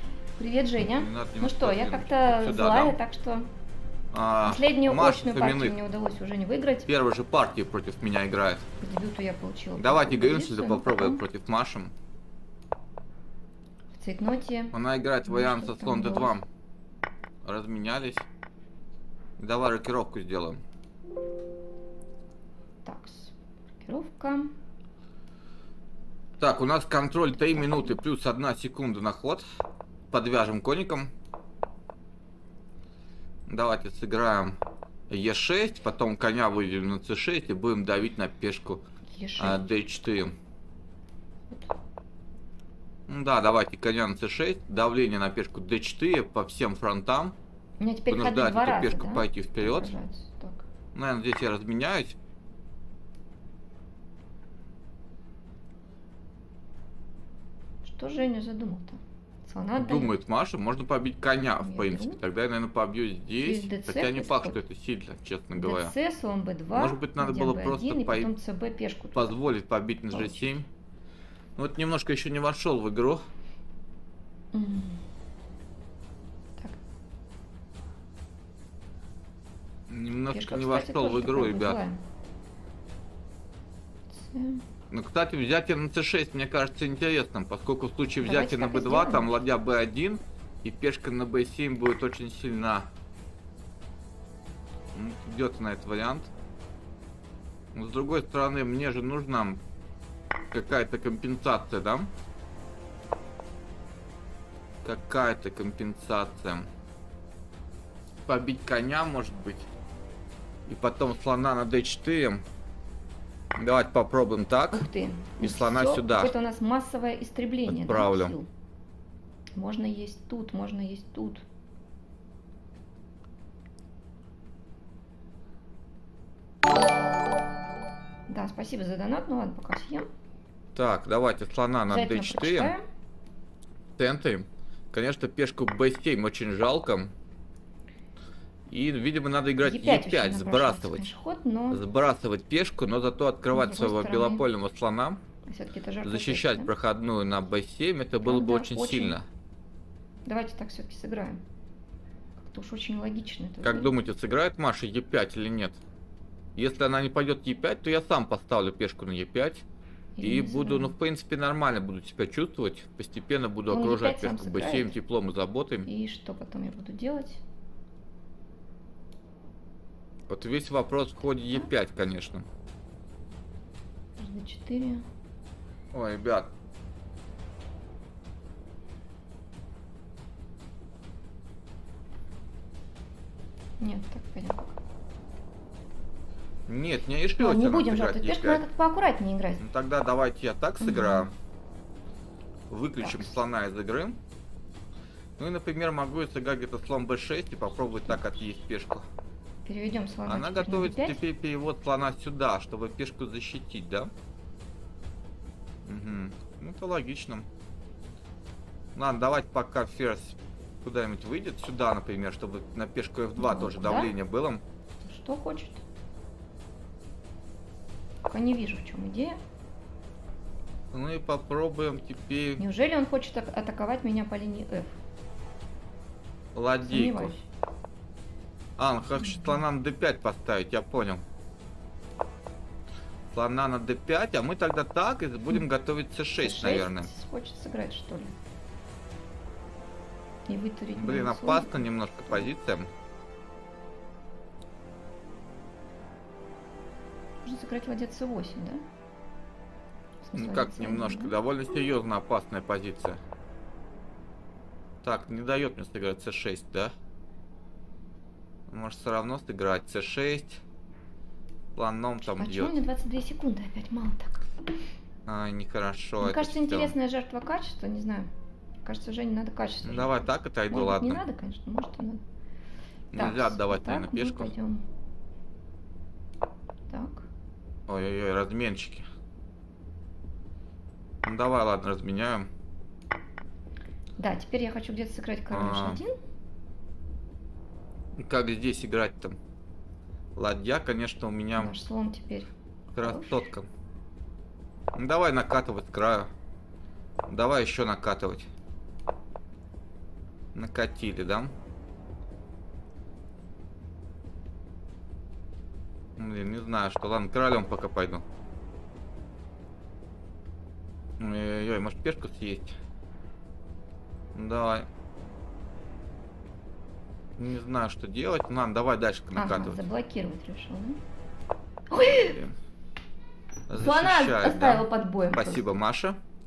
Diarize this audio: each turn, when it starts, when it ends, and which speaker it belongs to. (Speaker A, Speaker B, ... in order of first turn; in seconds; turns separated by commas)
Speaker A: 0.4-3.5, Speaker B: 0.8-3.0, Speaker B: 4.1-5.8, Speaker A: 4.5-6.9, Speaker B: 6.9-8.7, Speaker A: 8.8-11.2, Speaker B: 9.8-11.9, Speaker A: 13.9-16.4, Speaker B: 14.7-16.4, Speaker B: 17.4-18.3, Speaker B: 19.4-20.6, Speaker A: 22.8-24.5, Speaker B: 26.4-29.4, Speaker A: 27.3-28.0, Speaker B: 30.1-31.1, Speaker B: 33.5-38.8, Speaker A: 39.1-39.7, Speaker B: 39.4-40.3, Speaker B: 43.1-47.4, Speaker A: 47.8-50.7, Speaker B: 48.1-49.9, Speaker B: 50.9-52.2, Speaker A: 57.8-60.1, Speaker B: 59.8-65.9, Speaker A: 61.6-62.2, Speaker A: 63.4-64.6, Speaker A: 65.5-69.3, Speaker B: 66.7-68.3, Speaker B: 69.1-70.7, Speaker A: 70.1-70.6, Speaker B: 71.5-73.2, Speaker A: 74.5-75.0, Speaker B: 79.9-81.8, Speaker A: 80.3-82.0, Speaker A: 84.1-84.6, Speaker B: 84.9-92.9, Speaker A: 88.2-89.3, Speaker B: 94.9-96.3, Speaker B: 97.7-99.6, Speaker B: 100.5-102.1, Speaker B: 104.8-106.7, Speaker B: 108.2-109.7, Speaker B: 110.7-112.4, Speaker B: 113.6-114.9, Speaker A: 114.7-118.5, Speaker B: 115.4-116.3, Speaker B: 117.7-118.3, Speaker A: 119.5-121.4, Speaker A: 128.3-130.1, Speaker B: 130.7-132.7, Speaker A: 131.9-132.8, Speaker B: 134.0-137.1, Speaker B: 138.7-141.1, Speaker A: 139.6-141.8, Speaker B: 141.7-145.2, Speaker A: 143.5-144.4, Speaker A: 145.4-146.7, Speaker B: 146.0-149.2, Speaker A: 148.2-149.2, Speaker A: 150.2-151.4, Speaker A: 152.4-153.9, Speaker B: 153.6-155.8, Speaker B: 156.6-159.6, Speaker A: 160.2-160.9, Speaker B: 160.2-165.9, Speaker A: 163.7-164.9, Speaker A: 165.8-167.4, Speaker B: 170.3-172.4, Speaker A: 174.2-175.0, Speaker B: 175.9-176.5, Speaker A: 183.8-184.8, Speaker B: 186.7-188.6, Speaker A: 187.4-189.6, Speaker B: 189.6-191.3, Speaker A: 190.8-191.3, Speaker B: 192.7-194.2, Speaker A: 193.0-193.3, Speaker B: 195.4-199.0, Speaker A: 199.6-201.2, Speaker B: 200.3-204.1, Speaker B: 205.8-207.5, Speaker B: 208.9-214.6, Speaker A: 213.4-214.1, Speaker A: 215.0-215.8, Speaker A: 218.2-219.4, Speaker B: 220.9-222.6, Speaker A: 222.6-225.0, Speaker B: 226.5-227.3, Speaker A: 226.8-227.5, Speaker B: 228.8-231.2, Speaker A: 229.2-229.6, Speaker B: 233.3-237.1, Speaker A: 236.4-238.3, Speaker A: 240.5-242.5, Speaker B: 241.0-242.9, Speaker A: 247.4-248.8, Speaker A: 250.2-251.3, Speaker B: 250.3-253.2, Speaker B: 255.0-256.9, Speaker B: 258.7-260.6, Speaker B: 261.7-262.8, Speaker A: 262.2-264.5, Speaker B: 265.2-266.9, Speaker A: 266.2-268.3, Speaker A: 268.8-272.2, Speaker B: 269.8-271.2, Speaker B: 273.1-274.5, Speaker A: 273.1-274.8, Speaker A: 276.9-277.3, Speaker B: 277.9-279.1, Speaker B: 281.2-282.5, Speaker A: 284.2-286.1, Speaker B: 285.5-286.0, Speaker B: 288.2-289.4, Speaker B: 290.4-291.7, Speaker A: 291.6-293.5, Speaker B: 292.9-293.7, Speaker B: 294.9-296.3, Speaker B: 297.3-298.5, Speaker B: 300.5-301.5, Speaker B: 306.2-308.2, Speaker B: 311.2-312.7, Speaker B: 314.3-314.9, Speaker B: 317.4-319.8, Speaker A: 319.4-321.0, Speaker A: 321.9-322.4, Speaker B: 322.1-322.5, Speaker B: 323.7-326.2, Speaker A: 323.8-325.7